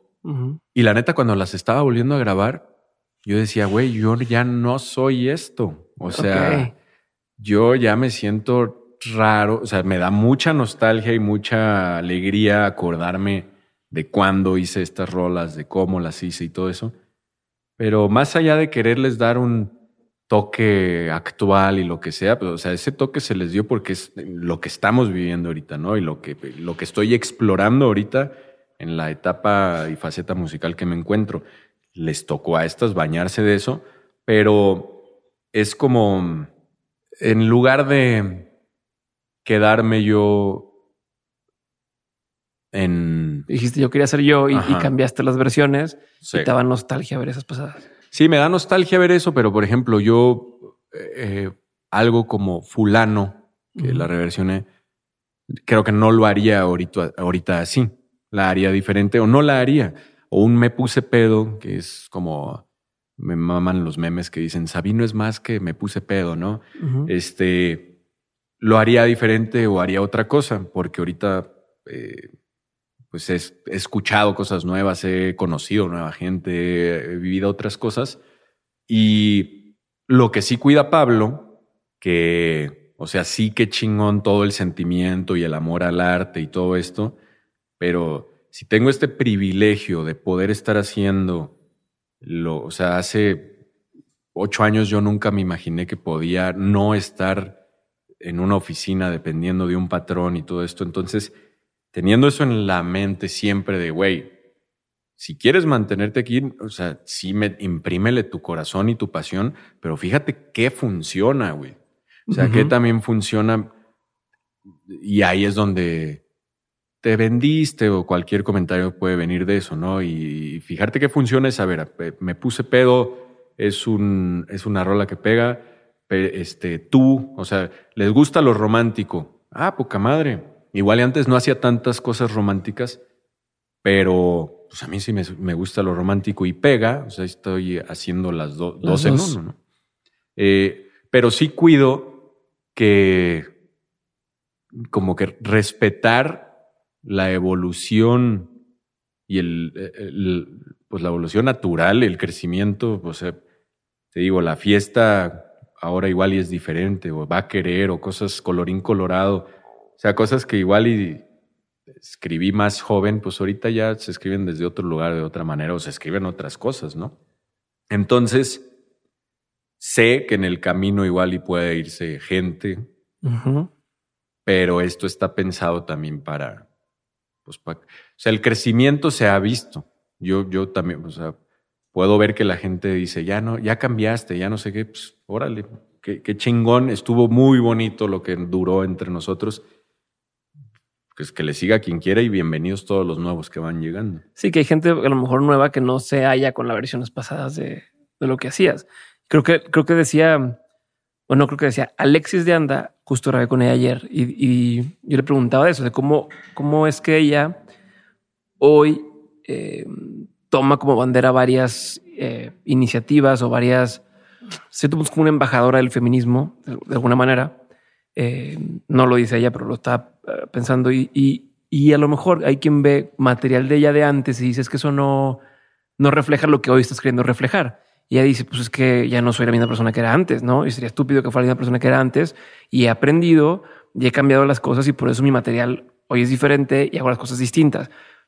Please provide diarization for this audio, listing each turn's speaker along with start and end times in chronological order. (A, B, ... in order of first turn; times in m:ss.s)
0:00.2-0:00.6 A
0:00.7-0:02.7 B
0:03.2-0:06.7 B
0:06.1-0:06.7 A
0:07.4-0:17.0 B
0:17.8-0:19.7 B
0:20.3-0:36.5 B
0:37.2-0:38.5 B
0:39.4-0:40.7 B
0:42.7-0:43.5 B
0:43.5-0:47.8 A
0:44.5-0:44.9 B
0:46.2-0:46.5 B
0:48.1-0:54.7 B
0:53.8-0:54.1 A
0:55.5-1:02.6 B
1:03.2-1:07.9 B
1:06.8-1:07.1 A
1:08.6-1:12.3 B
1:13.1-1:18.2 B
1:18.9-1:27.2 B
1:27.8-1:31.5 B
1:32.2-1:33.6 B
1:34.3-1:37.6 B
1:38.2-1:41.3 B
1:41.9-1:44.4 B
1:45.2-1:51.8 B
1:52.3-1:52.7 A
1:52.3-1:53.7 B
1:54.9-1:56.2 B
1:57.0-2:13.0 B
2:13.8-2:19.6 B
2:18.8-2:19.4 A
2:20.4-2:23.5 B
2:24.8-2:26.5 B
2:27.0-2:28.5 B
2:29.3-2:33.4 B
2:34.1-2:39.5 B
2:40.0-2:41.2 B
2:42.0-2:47.2 B
2:47.9-2:48.7 B
2:49.8-2:52.9 B
2:53.2-2:53.7 A
2:54.5-2:56.7 B
2:57.4-3:01.4 B
3:01.9-3:09.6 B
3:11.1-3:14.2 B
3:14.4-3:20.6 A
3:21.3-3:27.6 A
3:28.6-3:34.0 A
3:34.7-3:37.6 A
3:38.2-3:45.4 A
3:46.0-3:57.9 A